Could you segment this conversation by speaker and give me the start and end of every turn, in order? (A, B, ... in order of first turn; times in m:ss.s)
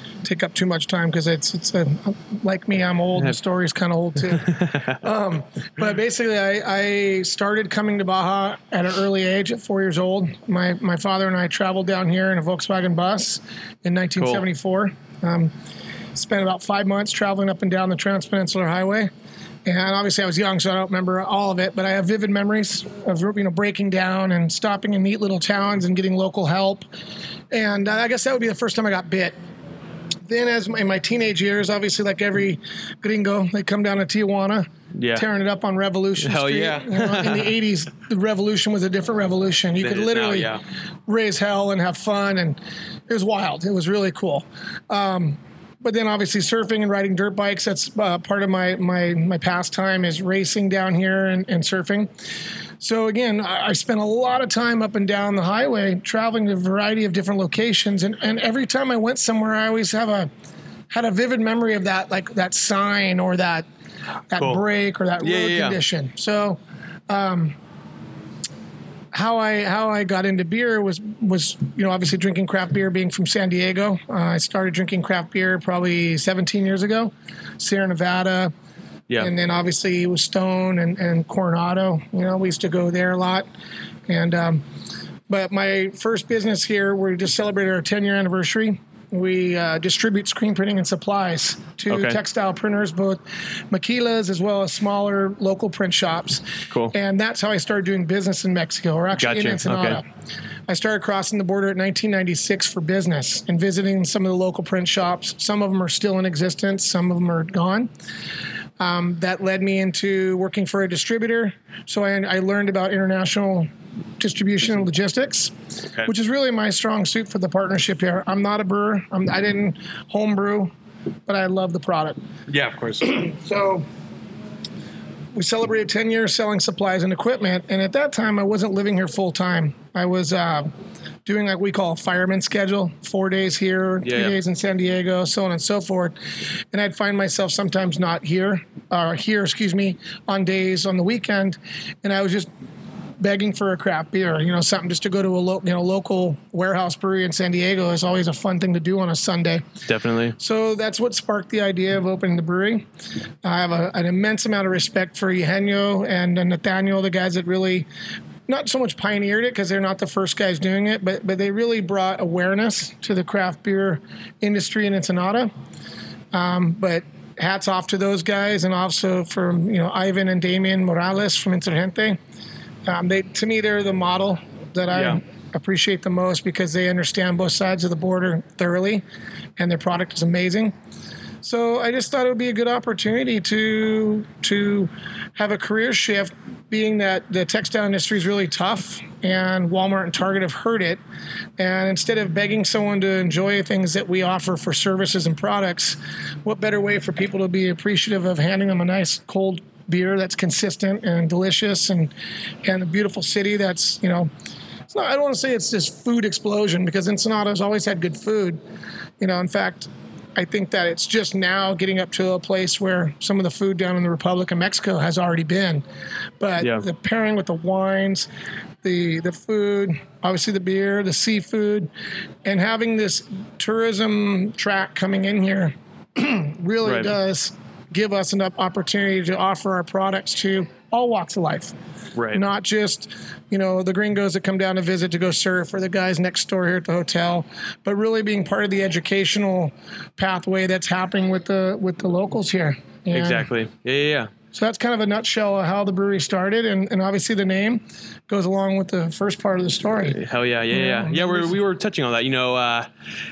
0:00.2-0:15.5 A
0:04.4-0:04.8 B
0:14.2-0:14.4 B
0:16.1-0:19.1 A
0:19.6-0:26.8 A
0:27.5-0:29.3 A
0:30.3-0:40.5 A
0:35.0-0:35.2 B
0:36.2-0:37.5 B
0:39.8-0:40.6 B
0:41.1-0:52.1 A
0:52.8-1:00.3 A
1:00.9-1:03.6 A
1:04.3-1:07.6 A
1:04.4-1:04.6 B
1:05.2-1:05.8 B
1:09.1-1:18.5 A
1:19.2-1:23.4 A
1:24.1-1:24.6 A
1:25.3-1:40.0 A
1:31.9-1:32.2 B
1:39.2-1:40.0 B
1:40.7-1:47.9 A
1:48.8-1:55.5 A
1:56.0-2:00.7 A
2:01.3-2:02.2 A
2:02.5-2:03.2 B
2:03.0-2:03.8 A
2:05.3-2:10.7 A
2:11.2-2:16.2 A
2:14.0-2:14.4 B
2:16.7-2:22.5 A
2:23.2-2:29.7 A
2:29.9-2:30.4 B
2:30.4-2:32.8 A
2:33.4-2:37.9 A
2:38.5-2:45.5 A
2:46.3-2:52.2 A
2:52.8-2:59.0 A
2:54.9-2:55.2 B
2:59.6-3:00.7 A
3:01.4-3:11.0 A
3:11.6-3:22.1 A
3:22.6-3:24.3 A
3:24.9-3:28.6 A
3:29.2-3:35.8 A
3:36.4-3:38.3 A
3:36.6-3:36.8 B
3:38.8-3:41.9 A
3:42.4-3:51.7 A
3:46.8-3:47.1 B
3:52.1-3:52.4 B
3:52.3-4:03.5 A
4:03.1-4:04.3 B
4:04.5-4:10.2 A
4:10.1-4:12.9 B
4:10.7-4:11.6 A